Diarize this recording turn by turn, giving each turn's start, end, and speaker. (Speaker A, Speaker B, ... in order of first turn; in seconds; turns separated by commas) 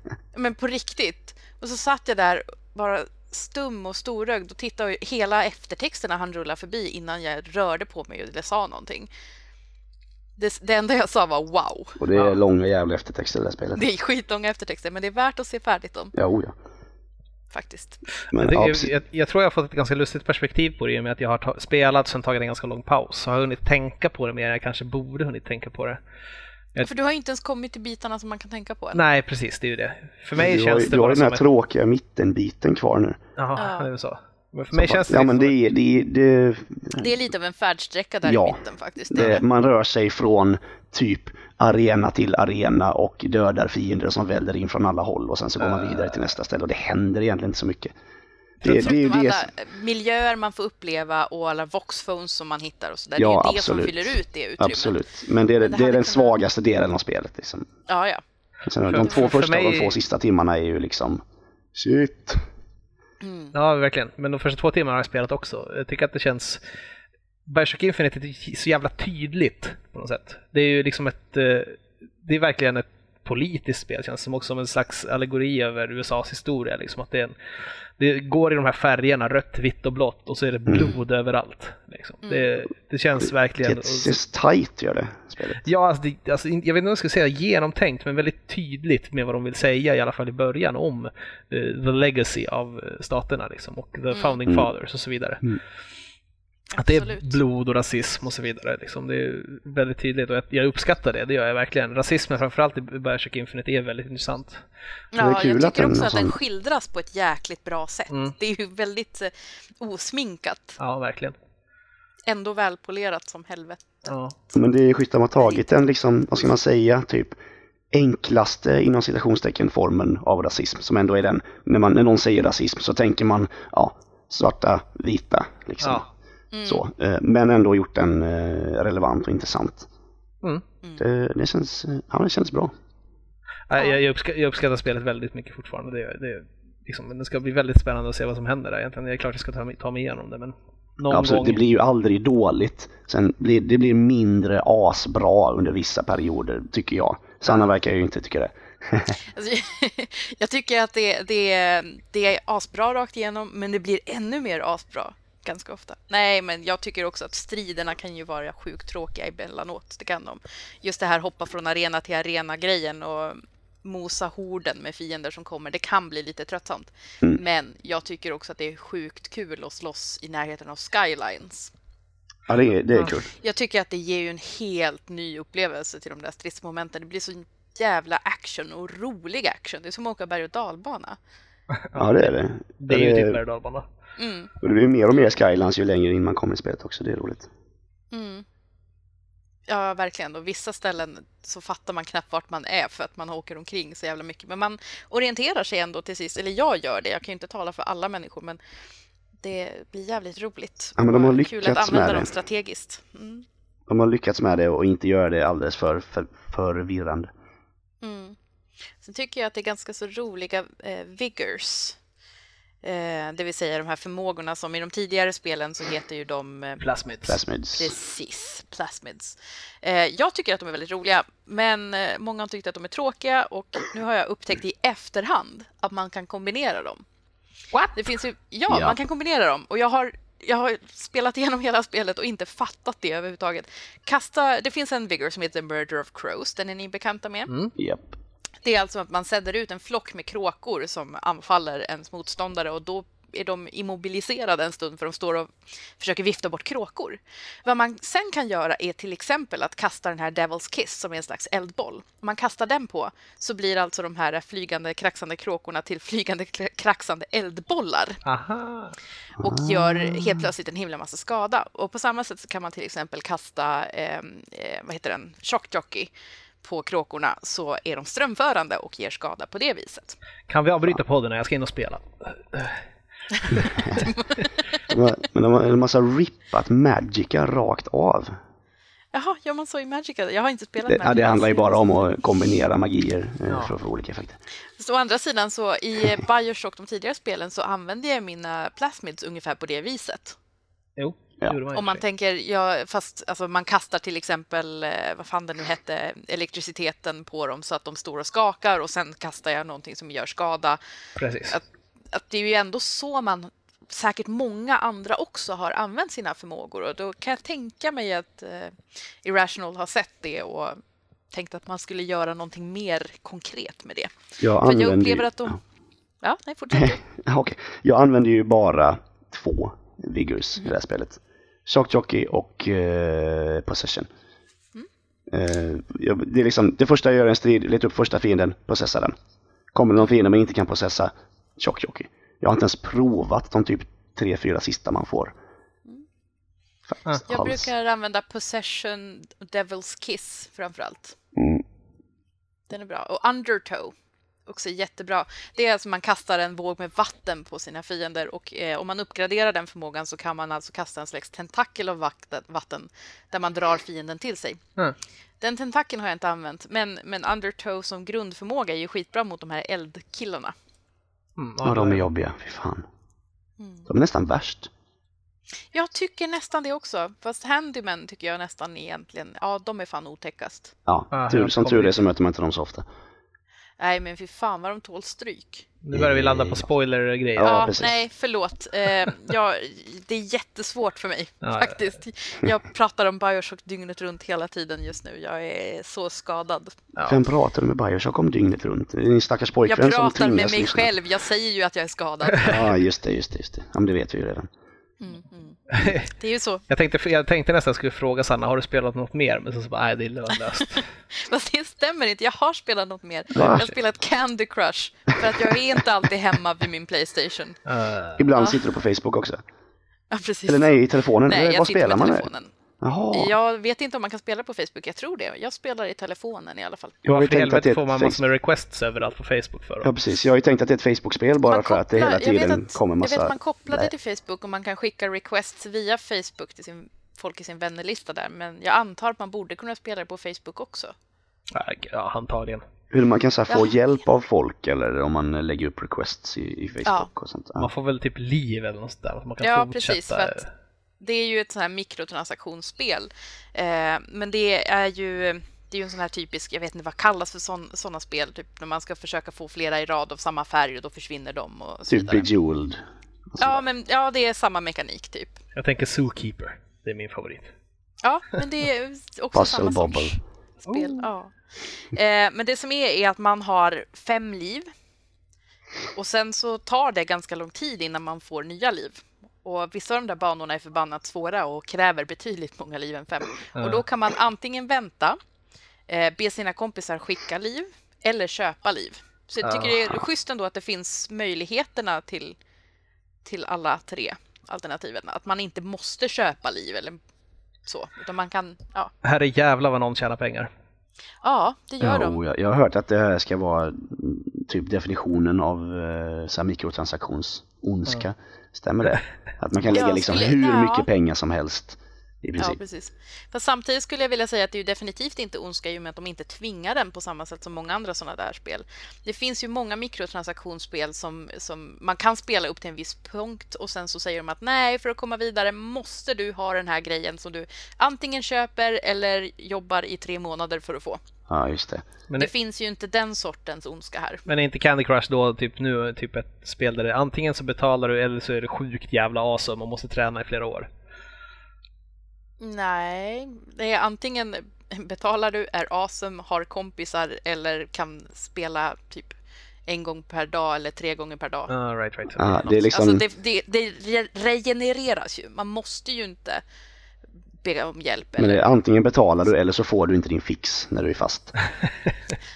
Speaker A: 0.3-9.1, Speaker A: 10.4-12.0, Speaker B: 12.0-13.8, Speaker A: 13.8-16.1, Speaker B: 16.1-16.6, Speaker A: 17.5-18.0, Speaker B: 18.3-18.9, Speaker C: 18.3-26.0, Speaker A: 26.8-29.0, Speaker C: 28.9-31.4, Speaker B: 30.4-33.2, Speaker C: 33.4-35.6, Speaker A: 33.6-33.9, Speaker B: 34.7-37.1, Speaker A: 37.0-39.4, Speaker B: 38.2-47.9, Speaker C: 45.6-46.2, Speaker B: 48.6-49.5, Speaker A: 48.6-55.0, Speaker B: 53.2-57.7, Speaker A: 55.6-56.4, Speaker A: 57.9-58.2, Speaker B: 58.7-61.2, Speaker C: 58.9-60.0, Speaker B: 61.7-62.4, Speaker A: 63.2-63.5, Speaker C: 63.5-66.6, Speaker C: 67.5-77.3, Speaker C: 78.0-84.2, Speaker B: 80.7-81.0, Speaker A: 82.2-82.5, Speaker B: 83.2-85.6, Speaker C: 85.6-95.5, Speaker A: 94.1-94.4, Speaker A: 96.7-97.4, Speaker C: 96.8-104.6, Speaker A: 105.1-110.8, Speaker B: 105.2-106.3, Speaker C: 110.8-111.3, Speaker A: 112.3-114.1, Speaker C: 114.1-114.3, Speaker B: 114.5-117.4, Speaker B: 117.9-126.1, Speaker C: 125.8-126.1, Speaker A: 126.5-126.8, Speaker B: 126.7-129.9, Speaker B: 131.0-132.7, Speaker C: 133.7-141.6, Speaker B: 141.1-149.2, Speaker A: 149.2-171.7, Speaker B: 172.5-173.3, Speaker A: 173.3-181.2, Speaker C: 181.8-182.3, Speaker B: 181.9-183.4, Speaker C: 182.8-183.8, Speaker A: 184.2-184.5, Speaker B: 184.6-187.5, Speaker A: 188.1-188.4, Speaker A: 189.7-198.6, Speaker A: 199.4-203.5, Speaker B: 201.0-202.3, Speaker B: 203.9-207.3, Speaker A: 208.0-208.4, Speaker A: 209.0-212.0, Speaker A: 212.8-216.8, Speaker C: 216.8-217.4, Speaker B: 217.3-217.9, Speaker A: 217.7-227.0, Speaker A: 227.8-237.5, Speaker B: 228.7-229.0, Speaker B: 237.8-238.1, Speaker A: 238.6-258.2, Speaker C: 258.2-259.0, Speaker B: 259.4-260.5, Speaker A: 259.4-270.2, Speaker C: 270.5-272.8, Speaker A: 273.4-274.4, Speaker C: 273.5-273.9, Speaker B: 274.9-278.4, Speaker A: 279.1-281.8, Speaker B: 280.9-284.4, Speaker A: 284.8-290.4, Speaker C: 291.0-292.0, Speaker A: 291.7-300.8, Speaker C: 301.2-301.6, Speaker A: 301.5-310.8, Speaker A: 311.3-315.6, Speaker B: 314.4-315.5, Speaker A: 316.2-317.0, Speaker B: 316.7-324.1, Speaker B: 325.3-329.2, Speaker B: 329.7-335.4, Speaker B: 336.9-337.7, Speaker A: 337.3-341.2, Speaker B: 341.4-341.6, Speaker A: 342.7-343.9, Speaker A: 344.5-354.6, Speaker A: 355.4-360.5, Speaker C: 361.4-362.0, Speaker B: 361.6-362.9, Speaker A: 363.6-363.9, Speaker B: 363.9-364.7, Speaker A: 365.7-370.7, Speaker B: 370.9-372.9, Speaker C: 371.1-372.0, Speaker A: 373.8-375.7, Speaker C: 375.8-377.7, Speaker B: 375.9-376.7, Speaker B: 377.4-378.0, Speaker A: 377.4-386.8, Speaker C: 381.4-381.8, Speaker C: 386.9-387.2, Speaker B: 387.1-390.9, Speaker A: 389.7-392.6, Speaker B: 392.4-394.5, Speaker A: 395.0-396.6, Speaker C: 395.7-396.1, Speaker C: 396.7-400.9, Speaker A: 400.8-407.6, Speaker B: 403.4-403.7, Speaker C: 403.4-403.7, Speaker C: 407.7-408.2, Speaker B: 408.2-409.4, Speaker A: 410.1-412.5, Speaker B: 410.5-412.3, Speaker B: 412.8-413.3, Speaker A: 413.1-417.0, Speaker B: 417.0-418.2, Speaker C: 417.1-419.9, Speaker B: 419.8-423.9, Speaker A: 421.5-430.9, Speaker C: 431.5-432.6, Speaker B: 432.9-437.7, Speaker A: 433.5-433.8, Speaker C: 437.6-440.5, Speaker A: 439.4-440.4, Speaker A: 441.0-452.3, Speaker B: 451.9-452.8, Speaker B: 453.3-453.6, Speaker A: 453.4-455.4, Speaker C: 455.6-457.5, Speaker A: 458.0-461.3, Speaker B: 459.3-460.2, Speaker C: 460.7-461.1, Speaker A: 461.9-464.7, Speaker A: 465.9-475.2, Speaker C: 473.6-473.8, Speaker A: 475.9-482.4, Speaker C: 479.4-479.7, Speaker A: 483.2-487.0, Speaker A: 487.7-488.9, Speaker C: 489.0-490.5, Speaker A: 491.2-492.2, Speaker B: 491.8-502.6, Speaker A: 499.7-500.9, Speaker A: 502.4-521.0, Speaker B: 521.3-521.9, Speaker A: 522.2-524.2, Speaker C: 524.3-530.7, Speaker A: 532.4-541.5, Speaker C: 541.5-542.5, Speaker B: 542.2-543.0, Speaker A: 542.7-546.4, Speaker A: 547.4-548.5, Speaker B: 548.2-551.3